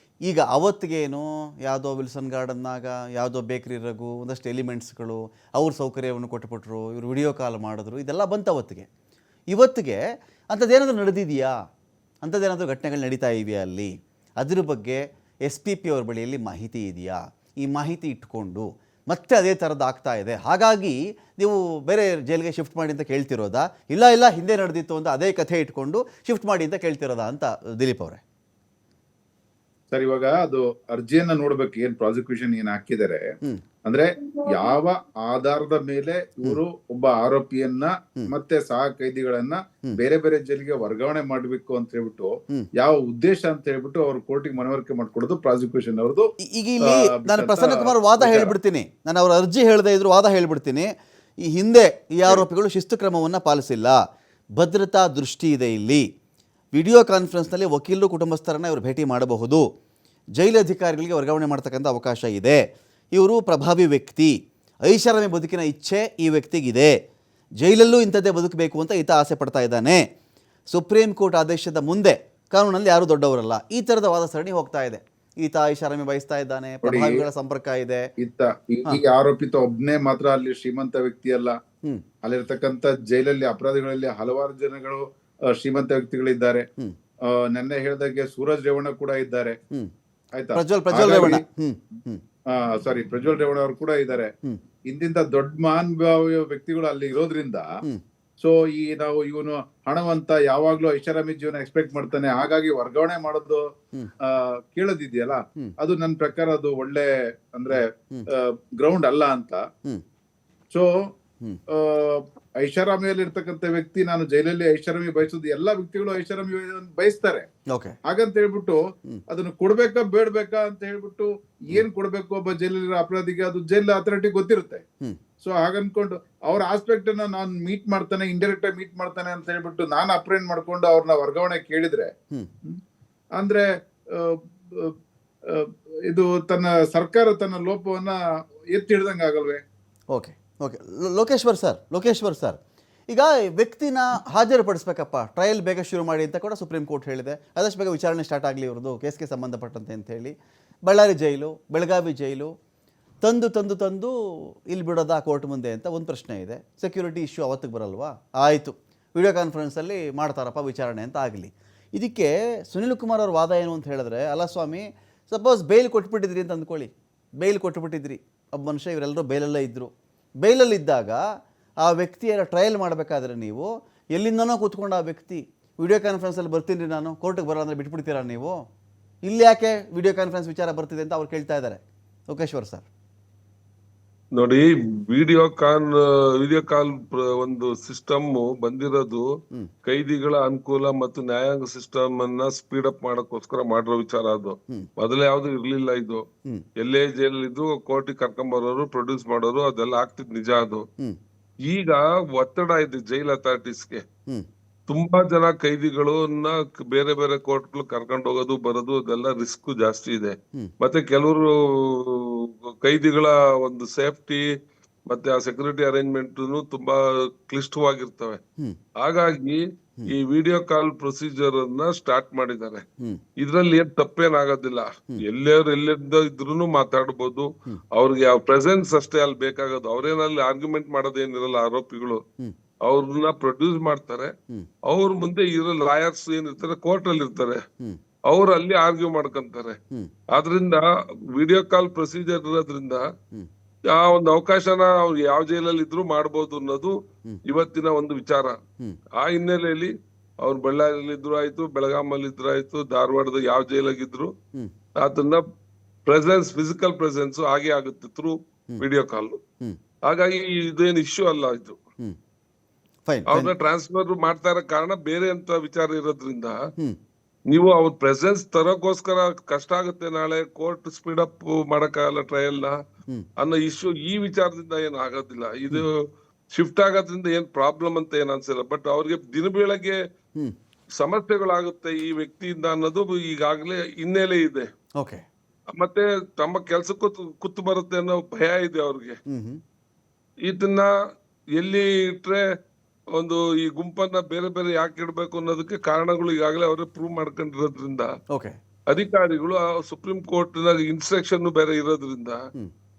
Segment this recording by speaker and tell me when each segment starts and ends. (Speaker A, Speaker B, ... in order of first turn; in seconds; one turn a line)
Speaker A: 0.3-8.9
Speaker A: 9.5-10.0
Speaker A: 10.5-11.5
Speaker A: 12.2-28.2
Speaker B: 29.9-33.2
Speaker B: 33.9-46.3
Speaker A: 46.4-50.9
Speaker B: 46.8-48.5
Speaker A: 51.4-54.0
Speaker A: 54.6-56.1
Speaker A: 56.7-59.6
Speaker A: 60.4-62.6
Speaker A: 63.1-64.3
Speaker A: 64.9-66.9
Speaker A: 67.6-70.0
Speaker A: 70.7-78.0
Speaker B: 76.8-77.2
Speaker B: 78.2-81.5
Speaker B: 82.2-86.7
Speaker B: 87.3-89.6
Speaker B: 90.4-91.4
Speaker A: 90.6-92.2
Speaker B: 92.5-94.3
Speaker B: 94.9-97.7
Speaker B: 98.4-103.6
Speaker B: 104.3-107.8
Speaker A: 107.7-108.3
Speaker B: 108.3-109.6
Speaker B: 111.7-117.5
Speaker B: 118.1-118.8
Speaker B: 119.3-124.8
Speaker B: 125.4-132.1
Speaker B: 133.4-133.7
Speaker B: 134.2-134.9
Speaker B: 135.5-138.2
Speaker B: 138.7-139.6
Speaker A: 140.1-150.3
Speaker A: 150.9-152.5
Speaker A: 153.2-154.2
Speaker A: 154.7-169.9
Speaker A: 170.4-171.2
Speaker A: 171.8-178.6
Speaker A: 179.3-182.9
Speaker C: 184.4-189.3
Speaker C: 189.8-196.2
Speaker C: 196.8-200.8
Speaker C: 201.7-204.0
Speaker C: 204.9-214.5
Speaker C: 215.1-218.4
Speaker C: 219.0-222.8
Speaker C: 223.4-232.2
Speaker C: 232.8-234.3
Speaker C: 234.9-237.6
Speaker C: 238.3-239.8
Speaker C: 240.3-243.1
Speaker C: 243.9-248.6
Speaker C: 249.2-254.3
Speaker C: 255.0-255.4
Speaker C: 256.1-259.4
Speaker C: 260.1-261.8
Speaker A: 263.1-263.5
Speaker C: 263.3-266.6
Speaker C: 267.5-272.8
Speaker C: 273.4-276.0
Speaker C: 276.5-280.0
Speaker C: 281.0-284.7
Speaker C: 285.8-289.2
Speaker A: 289.3-289.6
Speaker C: 290.5-290.9
Speaker C: 291.6-292.4
Speaker C: 293.1-298.1
Speaker C: 298.9-302.4